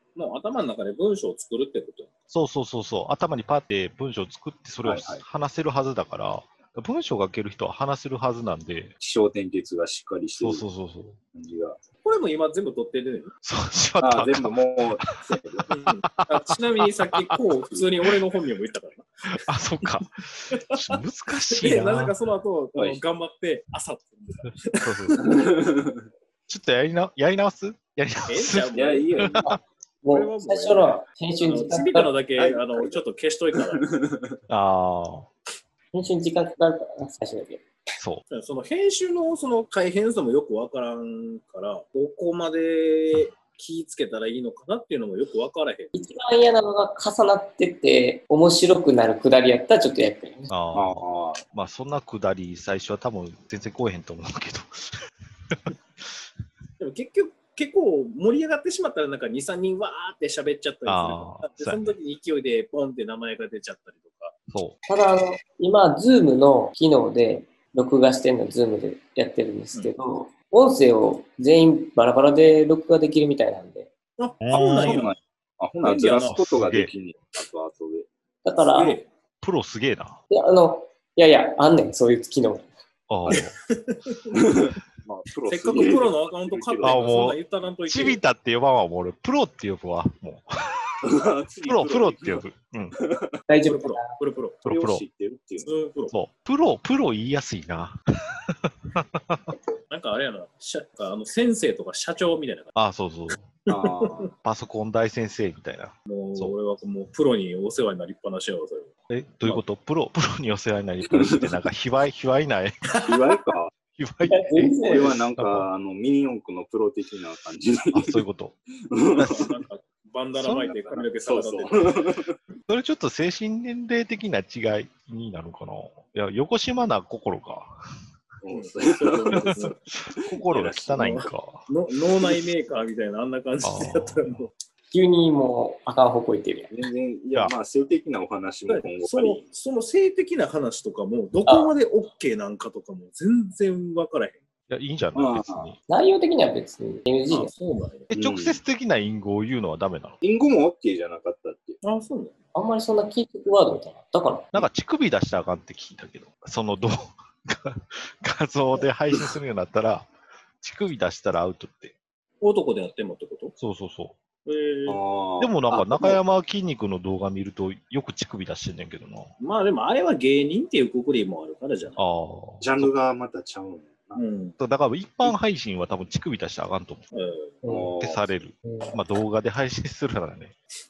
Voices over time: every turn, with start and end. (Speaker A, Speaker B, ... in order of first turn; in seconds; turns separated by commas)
Speaker A: 0.1-2.1, Speaker B: 2.3-8.9, Speaker C: 4.8-5.2, Speaker C: 9.0-10.7, Speaker B: 10.4-11.2, Speaker C: 11.3-11.8, Speaker A: 12.0-13.3, Speaker B: 13.4-14.8, Speaker C: 14.0-15.7, Speaker A: 15.7-19.3, Speaker B: 15.9-17.4, Speaker B: 19.3-22.1, Speaker A: 20.5-21.0, Speaker A: 21.5-25.6, Speaker C: 22.7-23.0, Speaker B: 24.8-25.3, Speaker C: 25.2-26.0, Speaker B: 26.5-29.6, Speaker A: 28.3-29.4, Speaker C: 28.7-29.5, Speaker D: 29.4-32.2, Speaker A: 30.1-33.9, Speaker C: 32.4-33.0, Speaker C: 33.8-34.4, Speaker B: 34.5-35.3, Speaker D: 35.9-37.6, Speaker B: 38.0-38.2, Speaker A: 38.3-46.1, Speaker D: 45.9-50.5, Speaker B: 50.5-55.7, Speaker C: 50.7-51.4, Speaker A: 56.8-64.3, Speaker B: 60.9-61.9, Speaker B: 64.5-64.8, Speaker D: 64.9-73.9, Speaker A: 74.2-75.1, Speaker B: 74.4-75.1, Speaker C: 74.7-78.1, Speaker A: 75.8-76.5, Speaker B: 76.2-76.9, Speaker D: 78.4-79.0, Speaker A: 78.7-79.1, Speaker B: 79.4-80.2, Speaker D: 80.3-82.7, Speaker B: 83.1-83.5, Speaker A: 83.3-84.5, Speaker C: 84.3-87.1, Speaker A: 85.5-88.2, Speaker B: 86.8-90.9, Speaker C: 91.0-92.4, Speaker B: 91.6-93.0, Speaker C: 93.0-93.4, Speaker D: 93.5-94.1, Speaker A: 93.6-94.6, Speaker B: 94.6-95.0, Speaker C: 94.7-95.7, Speaker A: 95.6-96.1, Speaker B: 96.1-99.5, Speaker A: 99.9-102.7, Speaker B: 102.7-103.4, Speaker A: 103.7-104.3, Speaker C: 103.7-104.3, Speaker B: 104.4-106.5, Speaker A: 106.1-108.9, Speaker B: 109.1-113.0, Speaker C: 111.1-111.5, Speaker A: 113.0-113.4, Speaker C: 113.0-113.7, Speaker B: 113.9-115.7, Speaker D: 114.3-115.2, Speaker C: 114.8-118.2, Speaker B: 117.9-118.5, Speaker C: 118.9-119.5, Speaker B: 119.2-119.4, Speaker A: 119.2-122.0, Speaker C: 120.4-122.3, Speaker B: 122.7-127.7, Speaker C: 128.4-129.7, Speaker A: 128.5-129.8, Speaker B: 129.3-131.7, Speaker A: 130.5-134.5, Speaker B: 133.6-134.3, Speaker D: 134.9-136.7, Speaker C: 136.7-139.4, Speaker A: 138.7-144.4, Speaker D: 141.4-141.7, Speaker B: 144.7-145.8, Speaker C: 145.1-145.7, Speaker D: 145.9-147.5, Speaker A: 147.3-148.1, Speaker B: 148.1-150.2, Speaker C: 148.1-148.6, Speaker C: 150.2-151.8, Speaker A: 151.8-152.3, Speaker D: 152.5-154.5, Speaker B: 154.5-160.1, Speaker B: 160.6-161.9, Speaker A: 162.4-163.5, Speaker B: 163.6-164.2, Speaker A: 164.4-165.0, Speaker C: 164.9-165.6, Speaker B: 165.4-169.3, Speaker A: 165.7-166.2, Speaker A: 169.4-172.0, Speaker B: 172.0-172.9, Speaker C: 172.6-174.2, Speaker A: 174.2-174.6, Speaker B: 174.6-177.0, Speaker A: 177.1-177.6, Speaker D: 177.6-177.9, Speaker C: 177.7-178.4, Speaker B: 178.0-180.5, Speaker D: 178.6-178.9